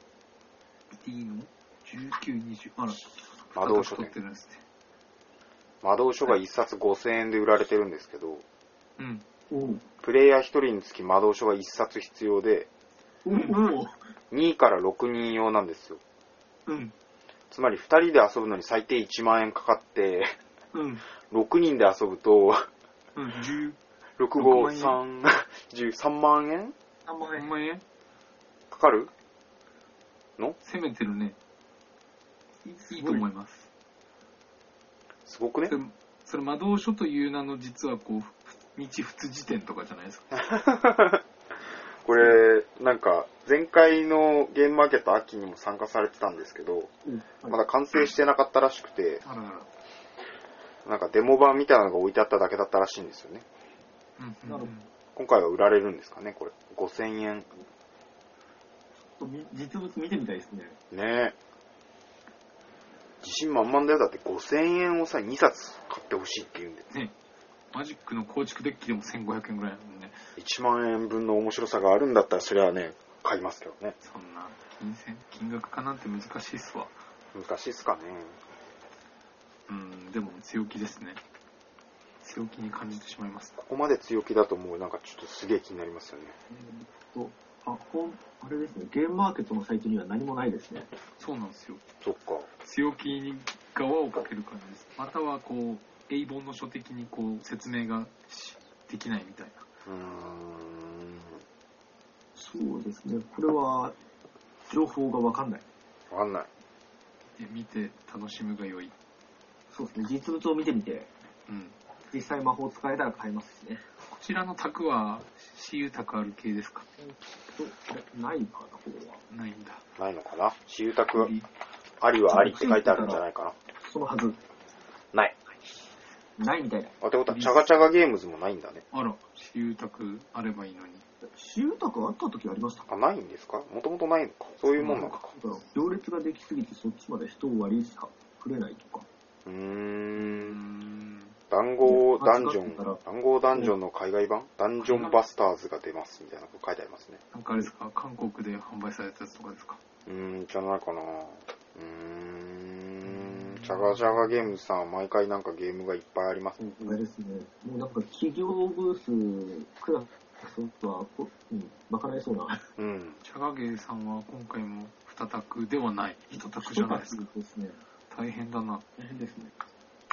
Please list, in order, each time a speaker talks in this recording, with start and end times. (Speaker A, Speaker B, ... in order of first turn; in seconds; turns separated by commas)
Speaker A: 0.9-4.6, Speaker B: 3.5-4.1, Speaker B: 5.8-8.4, Speaker A: 9.0-9.2, Speaker C: 9.5-9.8, Speaker B: 10.0-12.7, Speaker C: 13.2-13.9, Speaker B: 14.3-16.0, Speaker A: 16.6-16.9, Speaker B: 17.5-20.3, Speaker A: 20.7-21.0, Speaker B: 21.3-22.7, Speaker A: 23.1-23.8, Speaker B: 24.2-26.7, Speaker A: 24.4-25.0, Speaker C: 27.1-27.5, Speaker A: 27.3-27.8, Speaker B: 28.7-29.1, Speaker A: 30.6-31.4, Speaker C: 32.6-33.2, Speaker A: 32.9-33.7, Speaker B: 35.2-35.7, Speaker A: 35.7-40.3, Speaker B: 40.3-41.2, Speaker B: 42.0-46.9, Speaker C: 47.0-47.6, Speaker B: 47.5-49.2, Speaker A: 49.2-49.7, Speaker B: 50.8-53.5, Speaker A: 54.2-54.9, Speaker C: 54.5-54.7, Speaker B: 55.1-57.5, Speaker C: 59.2-60.8, Speaker B: 60.9-61.4, Speaker B: 63.2-66.9, Speaker A: 67.7-70.2, Speaker B: 70.4-74.0, Speaker A: 74.0-76.9, Speaker B: 77.3-78.4, Speaker A: 79.7-81.2, Speaker A: 82.2-83.6, Speaker B: 83.6-86.3, Speaker C: 86.5-90.9, Speaker A: 91.2-91.8, Speaker B: 92.0-92.5, Speaker A: 92.6-99.7, Speaker B: 99.8-101.4, Speaker C: 102.3-103.9, Speaker C: 104.7-105.6, Speaker B: 106.1-106.5, Speaker A: 107.3-108.9, Speaker C: 109.7-111.1, Speaker A: 111.5-111.8, Speaker C: 112.1-113.8, Speaker A: 114.1-116.9, Speaker C: 117.0-119.2, Speaker A: 119.3-119.8, Speaker B: 120.0-121.3, Speaker A: 121.1-121.5, Speaker B: 122.0-123.5, Speaker C: 122.3-123.2, Speaker C: 123.8-124.4, Speaker C: 126.4-127.5, Speaker B: 127.0-128.8, Speaker A: 128.9-131.0, Speaker C: 131.3-132.9, Speaker B: 132.9-135.3, Speaker A: 134.8-135.2, Speaker C: 134.9-139.1, Speaker B: 139.4-140.6, Speaker A: 140.2-141.3, Speaker B: 141.5-147.2, Speaker C: 141.8-143.0, Speaker A: 144.8-145.2, Speaker A: 147.3-149.8, Speaker B: 150.1-156.6, Speaker A: 153.1-154.3, Speaker A: 156.6-157.0, Speaker C: 156.8-162.6, Speaker B: 162.8-163.2, Speaker A: 163.2-167.2, Speaker C: 166.3-167.8, Speaker A: 168.1-168.8, Speaker C: 169.0-169.5